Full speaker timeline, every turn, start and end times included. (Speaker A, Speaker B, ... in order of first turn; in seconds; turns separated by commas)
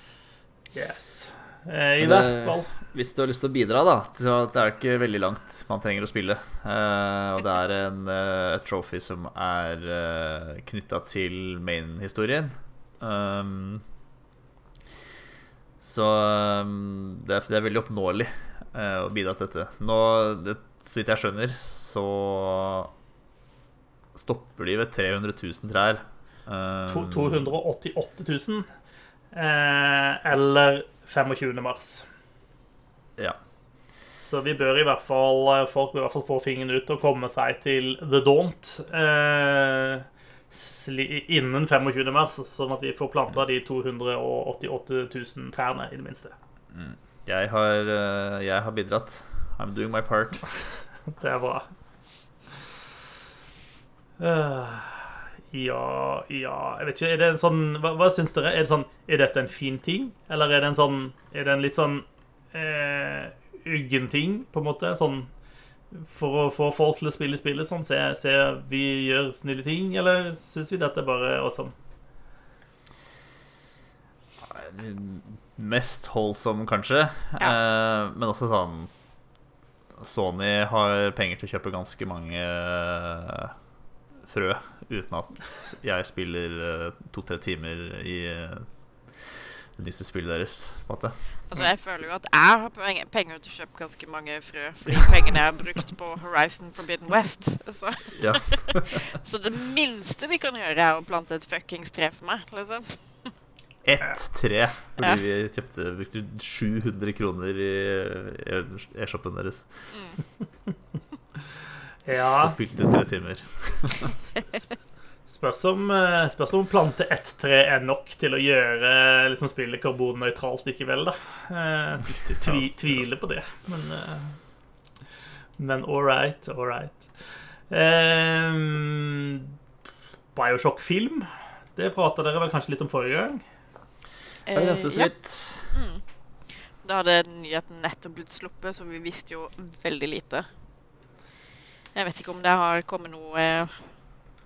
Speaker A: 0.7-2.7, Speaker B: 2.0-13.8, Speaker B: 15.8-22.9, Speaker B: 24.1-27.5, Speaker A: 26.9-28.7, Speaker A: 29.3-32.1, Speaker A: 34.2-46.3, Speaker B: 46.7-50.5, Speaker A: 51.2-51.7, Speaker A: 54.2-65.3, Speaker A: 65.9-71.7, Speaker B: 74.4-78.9, Speaker B: 80.0-83.5, Speaker B: 84.2-91.6, Speaker C: 91.5-103.3, Speaker B: 98.2-99.0, Speaker B: 103.8-109.7, Speaker C: 109.9-110.2, Speaker A: 112.1-112.6, Speaker B: 112.4-114.2, Speaker A: 114.3-114.7, Speaker C: 114.4-114.7, Speaker A: 115.3-124.4, Speaker B: 122.4-122.7, Speaker A: 125.6-129.5, Speaker A: 130.3-133.4, Speaker C: 134.5-135.1, Speaker B: 134.5-135.8, Speaker C: 135.7-140.5, Speaker C: 141.9-143.9